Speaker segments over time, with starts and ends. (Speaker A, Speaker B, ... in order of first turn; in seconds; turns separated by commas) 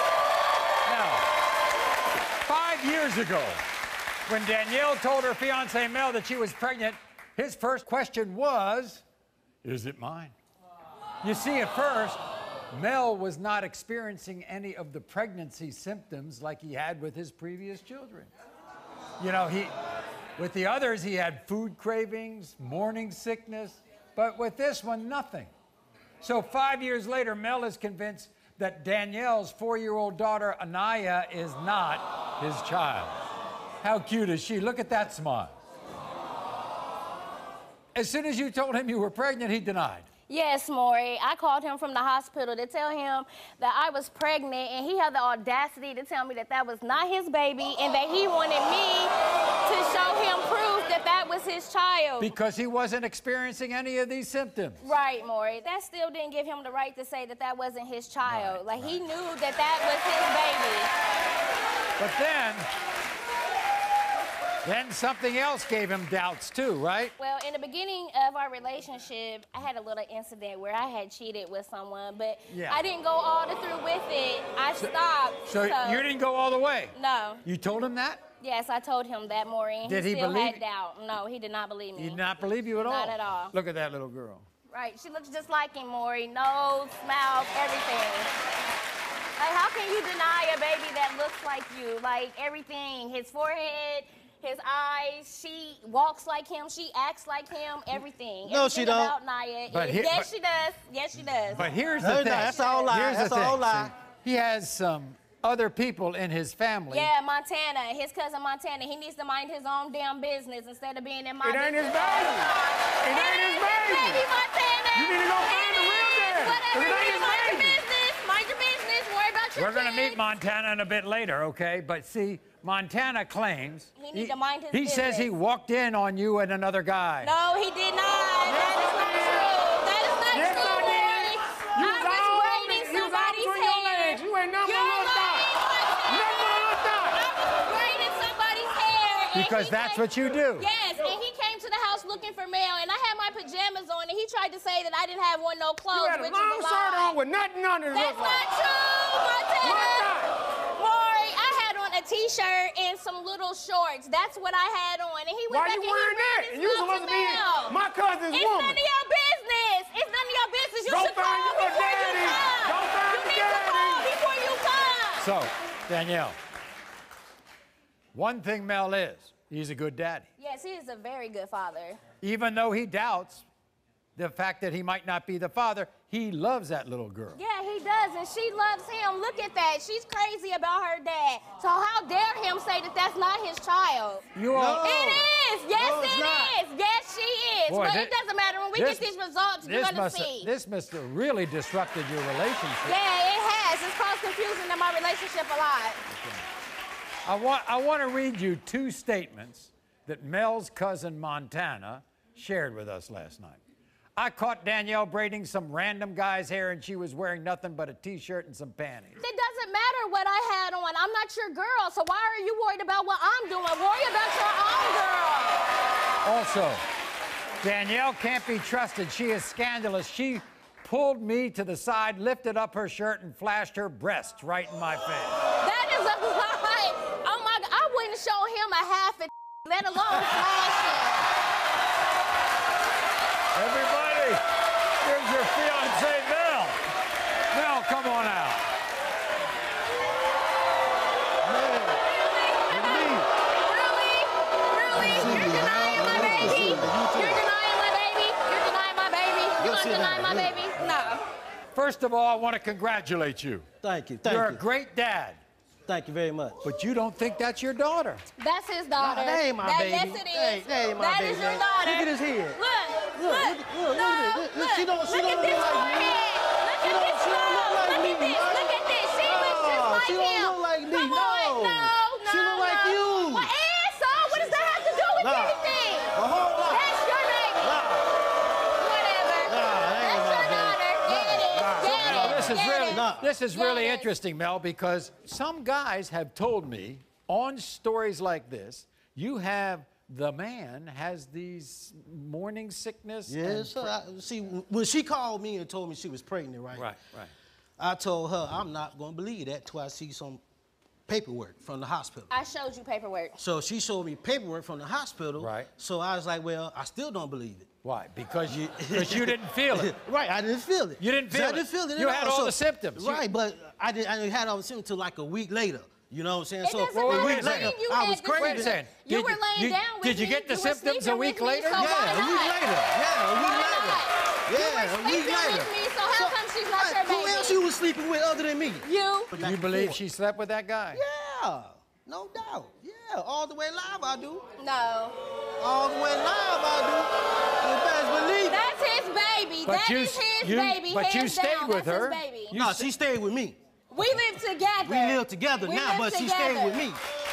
Speaker A: 0.8-1.3, Speaker A: 2.4-3.6, Speaker A: 4.3-9.0, Speaker A: 9.6-10.3, Speaker A: 11.2-12.2, Speaker A: 12.7-18.3, Speaker A: 19.2-19.7, Speaker A: 20.4-25.5, Speaker A: 26.2-33.2, Speaker A: 33.8-35.5, Speaker A: 37.9-40.1, Speaker B: 40.3-49.1, Speaker B: 49.6-52.3, Speaker A: 52.2-54.8, Speaker B: 54.8-60.9, Speaker A: 58.2-59.0, Speaker A: 62.0-62.6, Speaker A: 64.6-67.1, Speaker B: 67.2-76.0, Speaker A: 72.5-72.8, Speaker A: 75.5-76.9, Speaker B: 76.9-77.4, Speaker A: 77.4-78.2, Speaker B: 78.4-82.2, Speaker A: 79.8-80.6, Speaker A: 82.0-84.5, Speaker B: 82.7-83.5, Speaker B: 84.7-88.3, Speaker B: 89.4-101.7, Speaker C: 98.4-99.1, Speaker A: 99.7-100.3, Speaker A: 101.5-107.1, Speaker C: 102.0-103.9, Speaker B: 102.4-102.9, Speaker B: 106.9-120.2, Speaker D: 111.4-112.5, Speaker D: 113.0-114.2, Speaker D: 114.9-117.8, Speaker A: 119.5-127.3, Speaker B: 124.0-125.3, Speaker B: 127.2-140.0, Speaker D: 128.4-129.6, Speaker D: 130.3-135.5, Speaker D: 136.1-137.2, Speaker A: 139.3-140.7, Speaker B: 140.6-147.2, Speaker D: 145.9-148.4, Speaker B: 147.9-157.8, Speaker D: 149.6-150.3, Speaker D: 155.5-158.8, Speaker B: 158.3-165.3, Speaker D: 160.8-164.1, Speaker A: 165.2-166.4, Speaker A: 168.1-170.3, Speaker B: 170.4-172.0, Speaker A: 172.2-173.4, Speaker A: 174.2-177.4, Speaker B: 177.3-184.2, Speaker A: 184.3-184.8, Speaker C: 184.5-186.5, Speaker B: 184.8-190.5, Speaker A: 187.7-188.1, Speaker A: 188.7-189.0, Speaker A: 189.6-193.0, Speaker B: 192.8-196.0, Speaker A: 196.1-196.4, Speaker A: 197.2-203.6, Speaker A: 204.2-209.2, Speaker B: 209.2-215.7, Speaker A: 216.2-216.8, Speaker A: 217.6-225.3, Speaker B: 225.6-231.2, Speaker A: 233.5-234.4, Speaker A: 235.0-236.8, Speaker A: 237.5-238.6, Speaker C: 241.4-242.0, Speaker B: 242.1-251.2, Speaker C: 242.7-243.3, Speaker C: 244.9-247.4, Speaker A: 245.2-246.9, Speaker C: 249.6-250.8, Speaker A: 251.7-253.7, Speaker C: 253.8-254.6, Speaker A: 254.2-255.4, Speaker C: 255.8-256.6, Speaker A: 256.6-258.2, Speaker B: 258.4-276.1, Speaker C: 259.0-262.6, Speaker C: 263.1-266.2, Speaker C: 266.8-273.5, Speaker C: 275.2-275.6, Speaker C: 276.1-276.9, Speaker B: 276.7-277.8, Speaker C: 277.6-278.1, Speaker B: 278.8-284.1, Speaker C: 279.5-283.3, Speaker A: 281.8-293.9, Speaker C: 293.3-296.9, Speaker A: 296.7-297.3, Speaker C: 297.8-300.4, Speaker C: 301.1-302.3, Speaker B: 302.3-303.4, Speaker C: 303.4-307.7, Speaker A: 305.4-305.7, Speaker A: 307.8-309.9, Speaker C: 308.5-318.8, Speaker A: 311.0-313.2, Speaker B: 316.6-322.6, Speaker A: 316.9-317.7, Speaker A: 318.4-322.1, Speaker C: 321.7-330.0, Speaker B: 323.3-327.6, Speaker B: 328.8-329.3, Speaker A: 329.4-331.0, Speaker C: 330.9-334.4, Speaker B: 334.6-335.2, Speaker C: 335.6-338.6, Speaker B: 338.4-342.5, Speaker A: 339.6-342.9, Speaker C: 342.5-343.6, Speaker B: 343.9-346.9, Speaker C: 344.8-347.0